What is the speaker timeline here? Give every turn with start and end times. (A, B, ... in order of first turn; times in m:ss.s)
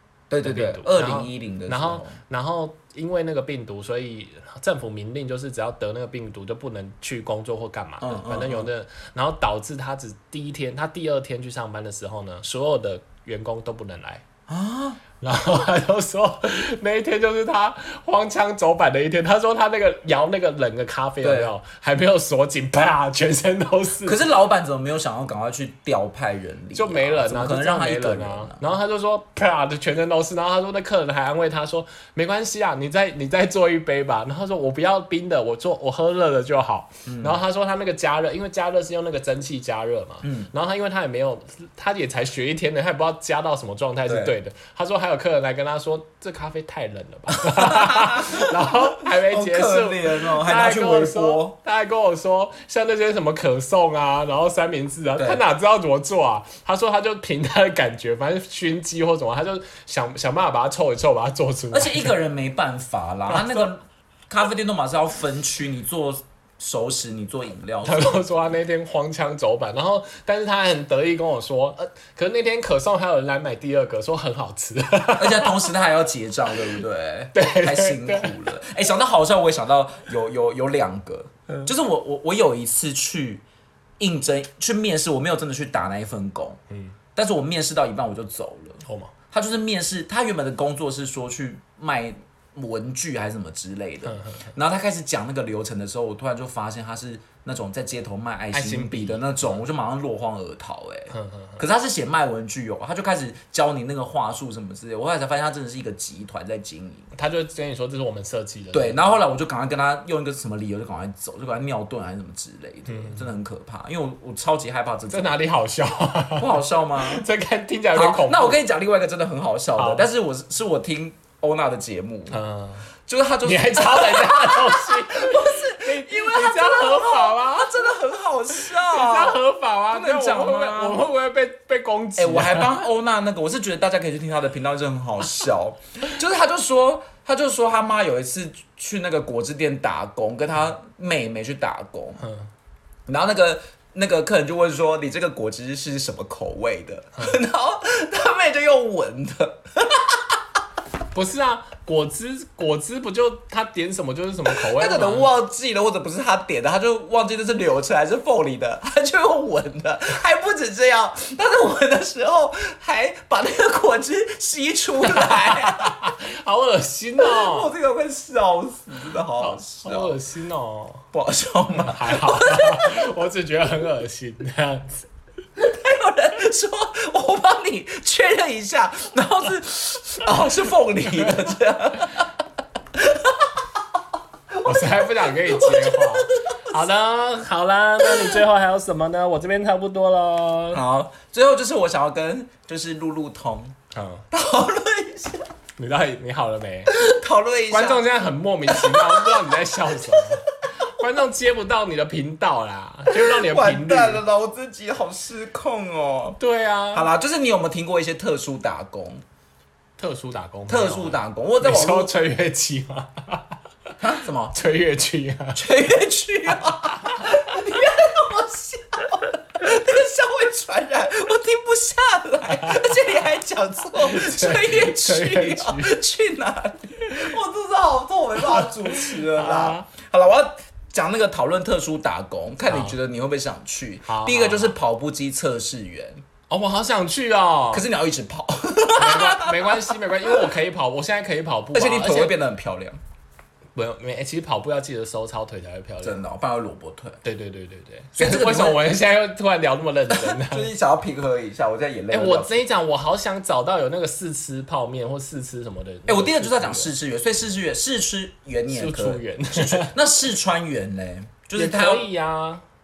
0:00.3-0:02.2 A
0:00.4-0:14.2 B
0:08.0-0:08.7 A
0:14.5-0:15.0 A
0:15.2-0:24.2 B
0:21.2-0:21.5 A
0:24.0-0:28.7 A
0:26.7-1:02.2 B
0:37.0-0:37.4 A
0:40.2-0:40.5 A
0:44.1-0:44.3 A
0:47.3-0:51.6 A
0:55.2-0:55.4 A
1:01.7-1:08.2 A
1:03.3-1:03.6 B
1:07.8-1:15.6 B
1:15.2-1:23.4 A
1:17.3-1:18.3 B
1:24.0-1:26.6 A
1:26.7-1:27.0 B
1:27.1-1:47.1 A
1:28.8-1:29.1 B
1:34.0-1:34.5 B
1:38.5-1:39.6 B
1:41.1-1:41.6 B
1:47.1-1:49.0 B
1:48.7-1:55.4 A
1:52.9-1:53.2 B
1:55.1-1:58.6 B
1:56.4-1:57.3 A
1:57.9-2:02.4 A
1:59.8-2:00.1 B
2:02.3-2:02.8 B
2:03.0-2:09.4 A
2:03.4-2:07.9 B
2:08.5-2:12.7 B
2:09.9-2:11.0 A
2:12.2-2:22.2 A
2:22.2-2:22.5 B
2:23.1-2:30.2 A
2:31.1-2:35.3 B
2:34.5-2:46.1 A
2:45.1-2:47.7 B
2:47.2-2:50.2 A
2:49.4-2:51.0 B
2:51.1-2:53.0 A
2:51.7-2:55.1 B
2:55.6-3:02.3 A
3:02.9-3:03.6 A
3:04.5-3:06.6 A
3:04.6-3:10.8 B
3:10.7-3:13.8 A
3:13.9-3:14.2 B
3:14.3-3:15.5 A
3:15.8-3:16.9 B
3:16.9-3:18.0 A
3:17.7-3:24.2 B
3:18.7-3:21.0 A
3:23.1-3:26.4 A
3:26.4-3:27.0 B
3:26.9-3:29.2 A
3:30.0-3:33.6 B
3:30.7-3:32.1 A
3:34.0-3:34.6 A
3:34.5-3:35.6 B
3:35.5-3:56.2 A
3:42.5-3:43.0 B
3:44.0-3:46.0 B
3:48.4-3:49.8 B
3:52.6-3:52.9 B
3:54.1-3:54.7 B
3:56.5-3:57.8 B
3:57.7-4:00.4 A
3:59.0-4:02.4 B
4:01.7-4:03.0 A
4:03.7-4:06.2 B
4:06.0-4:07.2 A
4:07.2-4:10.7 B
4:08.2-4:08.9 A
4:10.1-4:12.6 A
4:12.1-4:16.9 B
4:16.1-4:22.1 A
4:18.7-4:19.9 B
4:21.5-4:22.6 B